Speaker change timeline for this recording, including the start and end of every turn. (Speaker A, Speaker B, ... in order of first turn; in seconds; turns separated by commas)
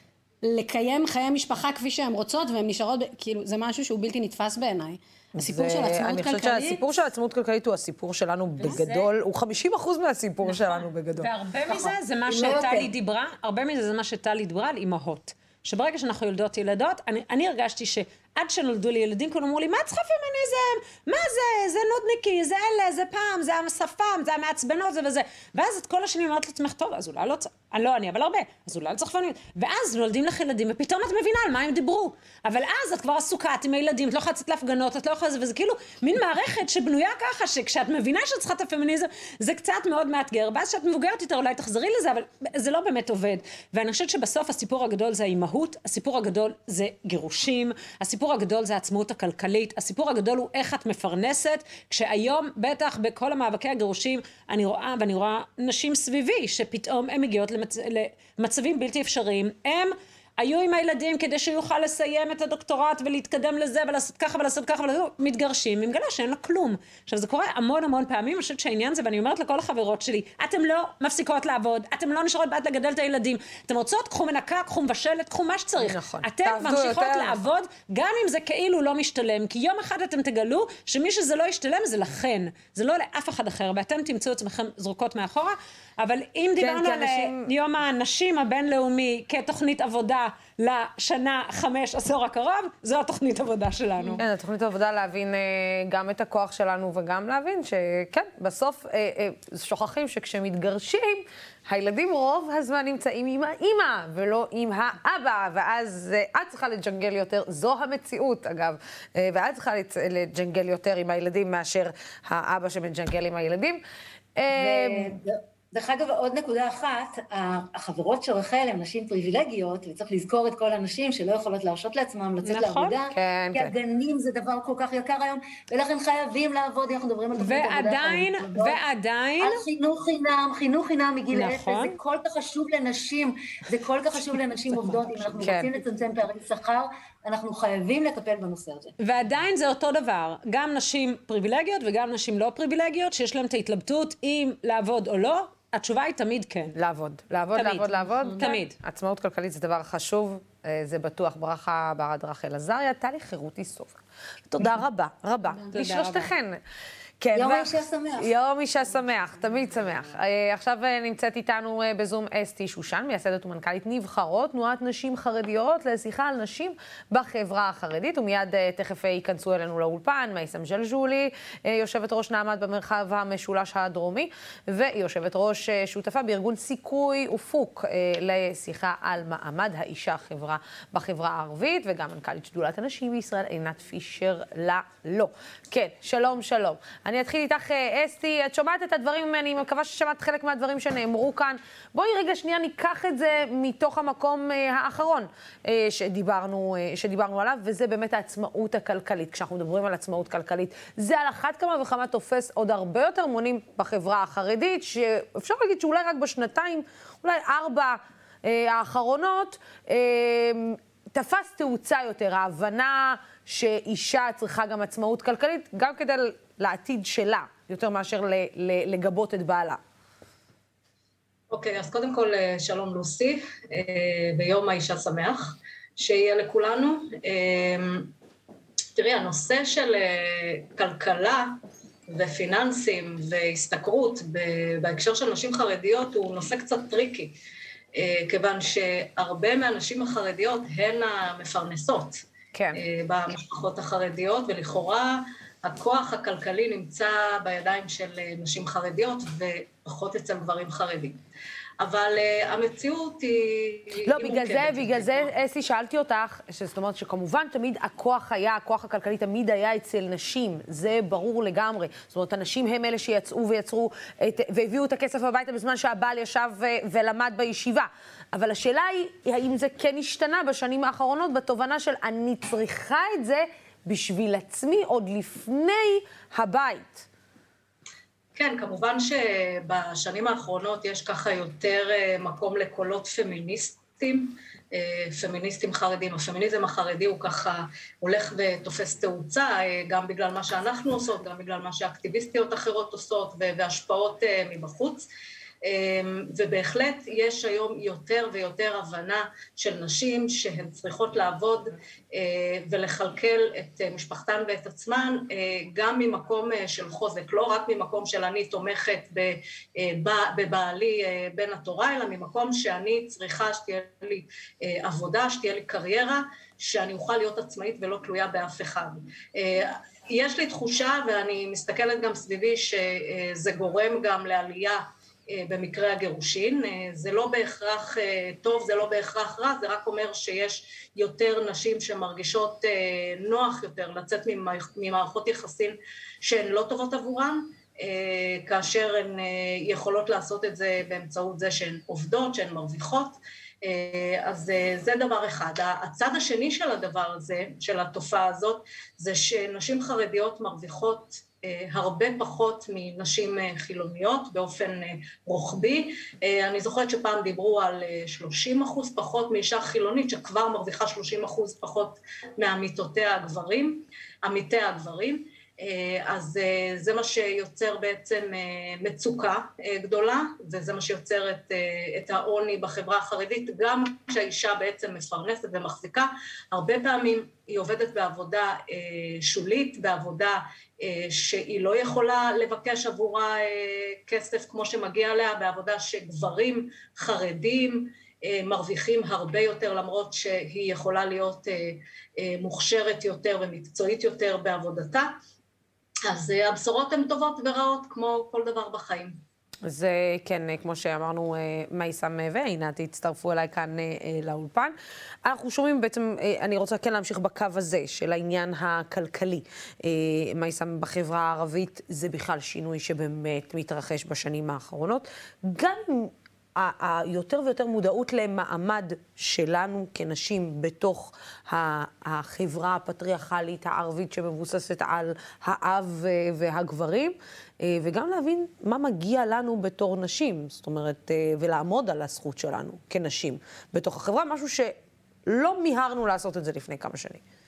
Speaker A: 0.4-6.8, Speaker B: 5.4-11.3, Speaker C: 8.6-9.1, Speaker C: 10.4-94.2, Speaker D: 11.7-12.9, Speaker B: 75.8-77.4, Speaker B: 86.6-87.5, Speaker B: 94.2-113.8, Speaker B: 114.4-115.2, Speaker D: 114.5-128.8, Speaker C: 122.4-123.0, Speaker B: 123.1-123.7, Speaker C: 127.3-129.6, Speaker D: 129.4-138.9, Speaker C: 131.3-132.0, Speaker B: 134.9-135.7, Speaker C: 139.0-146.8, Speaker B: 146.8-156.6, Speaker C: 147.6-148.8, Speaker C: 155.7-156.3, Speaker B: 157.2-219.8, Speaker D: 157.3-158.3, Speaker E: 221.5-228.1, Speaker E: 229.0-231.6, Speaker E: 232.1-237.3, Speaker E: 237.9-242.2, Speaker B: 242.6-242.8, Speaker E: 242.8-251.2, Speaker E: 251.8-255.3, Speaker B: 254.1-277.1, Speaker E: 278.4-295.1, Speaker E: 295.6-395.1, Speaker E: 396.1-399.2, Speaker B: 399.7-434.8, Speaker B: 435.3-437.2